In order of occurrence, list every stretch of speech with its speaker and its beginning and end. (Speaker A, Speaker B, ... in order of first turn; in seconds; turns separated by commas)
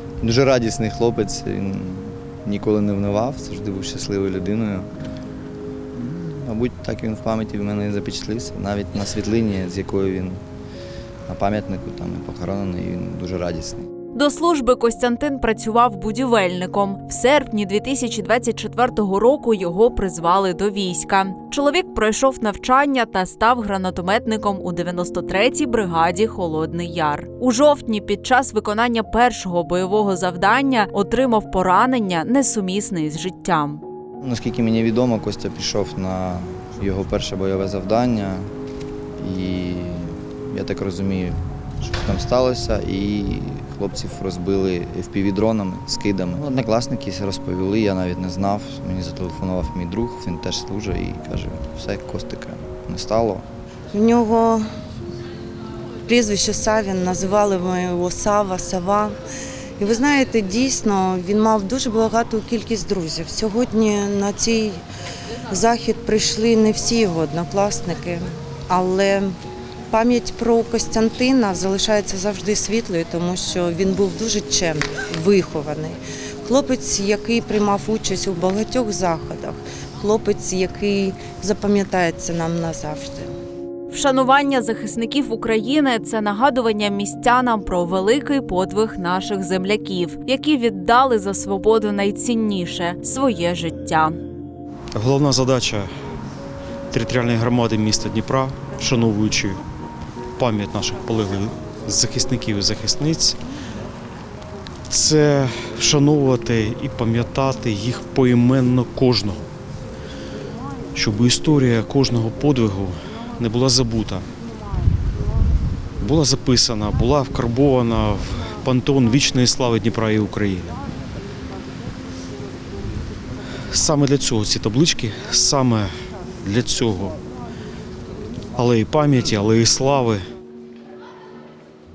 Speaker A: 0.2-4.9, Speaker A: 6.0-10.4, Speaker A: 11.3-13.9, Speaker B: 14.1-33.8, Speaker A: 34.2-38.5, Speaker A: 39.2-53.4, Speaker C: 53.9-54.6, Speaker C: 56.0-59.1, Speaker C: 59.8-64.8, Speaker C: 65.5-69.3, Speaker C: 69.9-83.3, Speaker B: 83.9-94.2, Speaker D: 94.9-95.9, Speaker D: 96.9-99.6, Speaker D: 100.4-103.4, Speaker D: 104.9-109.5, Speaker D: 110.9-114.2, Speaker D: 116.0-120.7, Speaker D: 123.7-125.9, Speaker D: 126.4-127.2, Speaker D: 128.6-130.2